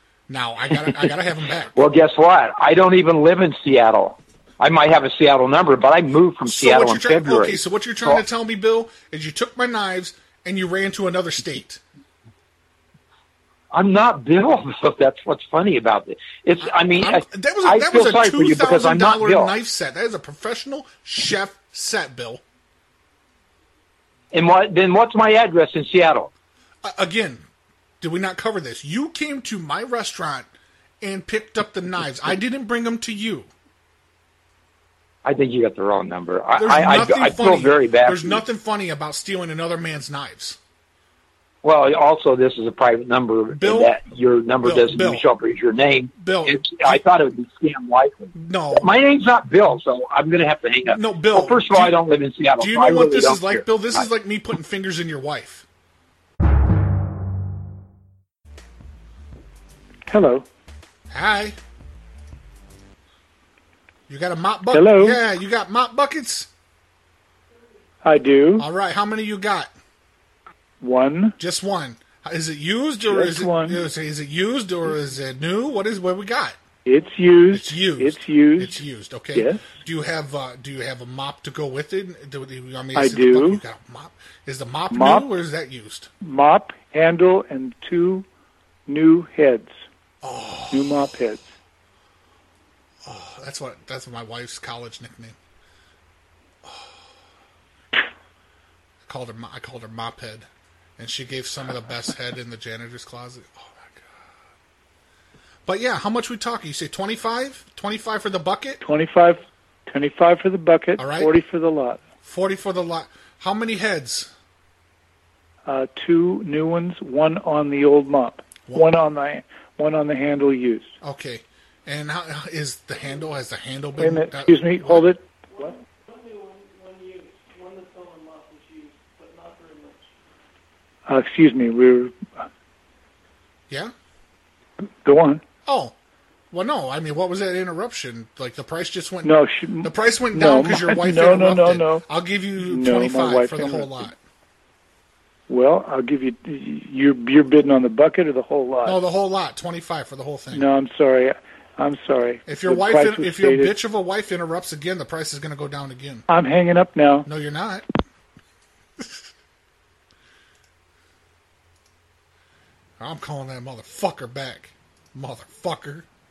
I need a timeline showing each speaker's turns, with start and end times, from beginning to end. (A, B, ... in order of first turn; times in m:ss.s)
0:00.3-0:01.8 A
0:01.7-0:08.2 B
0:06.4-0:11.8 A
0:13.7-0:19.5 B
0:16.6-0:22.4 A
0:24.3-0:26.3 B
0:26.8-0:27.4 A
0:28.0-0:30.5 A
0:31.0-0:33.5 A
0:35.2-0:38.4 B
0:36.5-0:40.6 A
0:41.6-0:54.0 B
0:43.5-0:44.0 A
0:44.6-0:45.3 A
0:46.1-0:47.0 A
0:48.3-0:48.9 A
0:50.9-0:52.0 A
0:52.6-0:55.6 A
1:00.1-1:00.4 C
1:01.1-1:01.6 A
1:04.1-1:06.5 A
1:04.7-1:05.2 C
1:08.0-1:08.6 C
1:08.6-1:09.7 A
1:10.8-1:11.4 C
1:11.4-1:16.6 A
1:13.0-1:13.8 C
1:16.8-1:18.7 C
1:17.5-1:26.1 A
1:19.3-1:19.6 C
1:22.9-1:23.6 C
1:24.9-1:25.3 C
1:26.2-1:28.2 C
1:28.9-1:29.8 C
1:30.2-1:31.1 A
1:30.7-1:31.4 C
1:33.0-1:35.4 A
1:36.6-1:37.0 A
1:39.0-1:44.2 A
1:45.6-1:48.8 A
1:48.8-1:52.0 C
1:51.0-1:51.4 A
1:52.2-1:54.3 A
1:55.6-2:00.9 C
1:58.6-1:58.9 A
2:01.0-2:05.1 A
2:04.0-2:05.8 C
2:11.1-2:12.4 C
2:15.0-2:15.4 C
2:15.6-2:15.9 A
2:16.5-2:24.2 A
2:19.2-2:22.0 C
2:22.6-2:24.1 C
2:25.5-2:29.0 C
2:28.8-2:30.7 A
2:30.5-2:33.7 C
2:32.4-2:36.3 A
2:36.3-2:37.3 C
2:37.3-2:37.8 A
2:39.0-2:39.2 A
2:43.0-2:46.1 A